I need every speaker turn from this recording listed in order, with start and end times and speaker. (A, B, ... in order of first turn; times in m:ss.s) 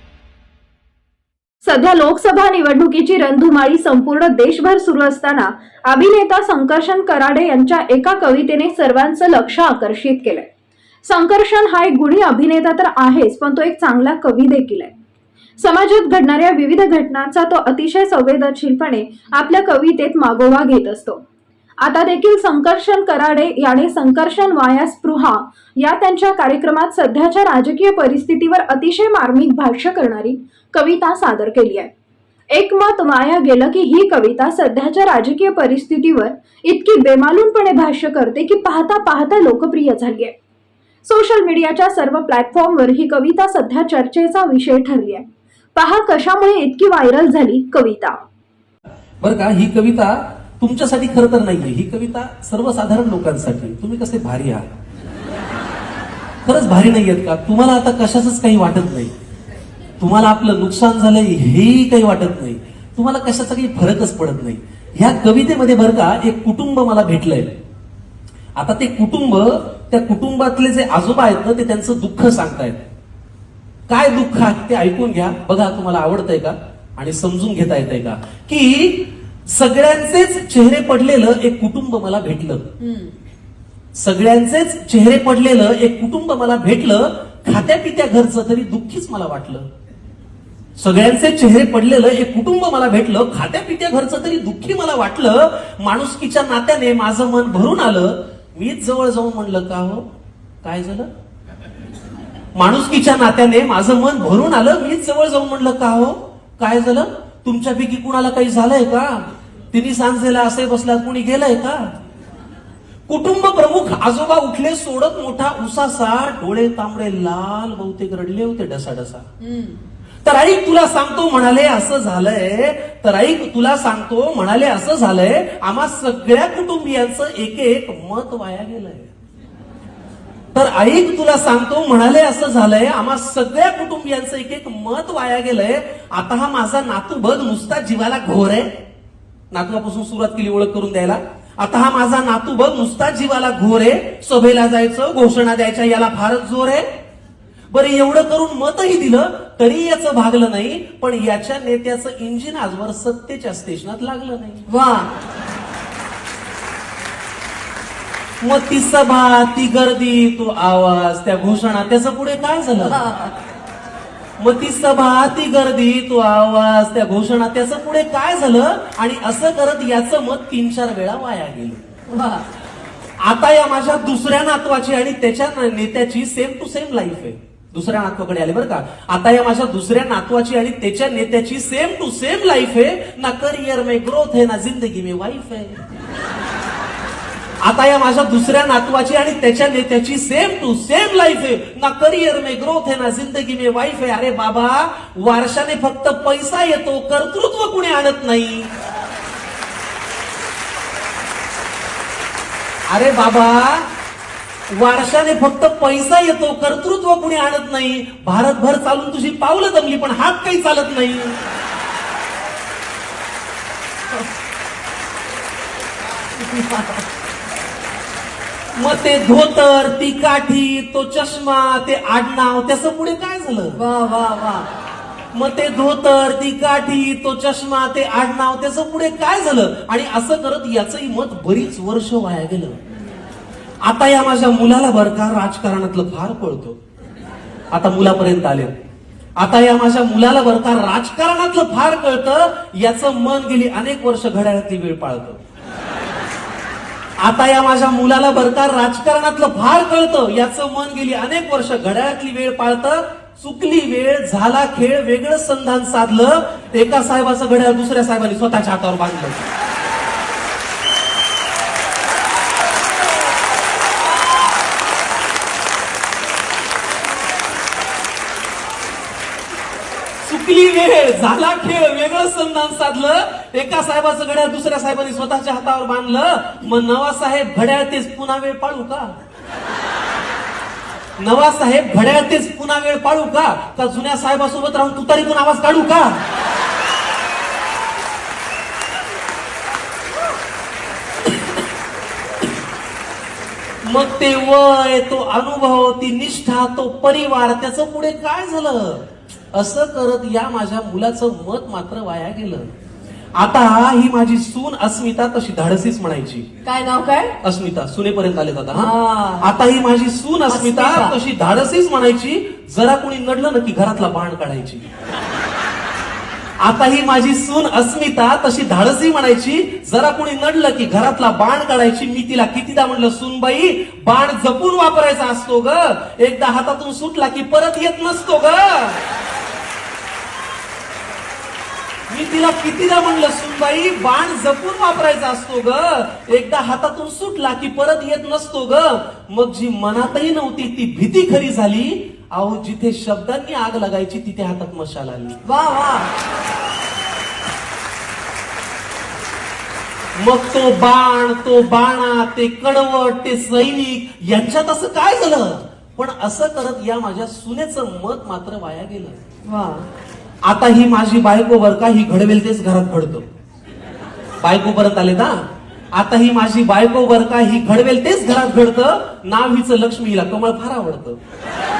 0:01.6-0:10.5 A
0:11.0-0:14.9 A
0:15.6-0:21.2 A
0:21.8-0:31.9 A
0:32.5-0:40.3 A
0:41.0-0:48.2 A
0:49.2-0:54.7 B
0:56.4-0:59.1 B
1:00.0-1:07.5 B
1:08.6-1:12.8 B
1:13.9-1:22.7 B
1:23.9-1:29.7 B
1:30.8-1:40.0 B
1:40.6-1:41.1 B
1:42.5-1:51.9 B
1:53.1-1:59.2 B
1:59.5-1:59.8 C
2:00.2-2:09.1 B
2:10.5-2:18.8 B
2:19.5-2:26.8 B
2:27.7-2:34.7 B
2:34.7-2:35.1 C
2:38.4-2:43.0 B
2:42.9-2:43.3 C
2:44.4-2:51.9 B
2:52.1-2:52.4 C
2:53.2-3:05.8 B
3:07.6-3:18.7 B
3:22.9-3:23.9 B
3:24.7-3:31.4 B
3:36.4-3:37.0 C
3:38.7-3:43.8 B
3:43.8-3:44.7 C
3:45.3-3:52.8 B
3:53.8-3:56.8 B
3:57.7-3:58.7 B
3:59.4-4:05.4 B
4:07.2-4:19.5 B
4:30.2-4:39.1 B
4:41.2-4:46.1 B
4:53.8-5:02.7 B
5:03.4-5:06.5 B
5:06.6-5:07.4 C
5:07.4-5:14.8 B
5:08.8-5:09.5 C
5:10.5-5:11.1 C
5:16.6-5:29.0 B
5:32.1-5:45.4 B
5:45.5-5:46.1 C
5:50.2-5:59.2 B
5:59.5-5:59.8 C
6:00.4-6:03.2 B
6:04.4-6:11.2 B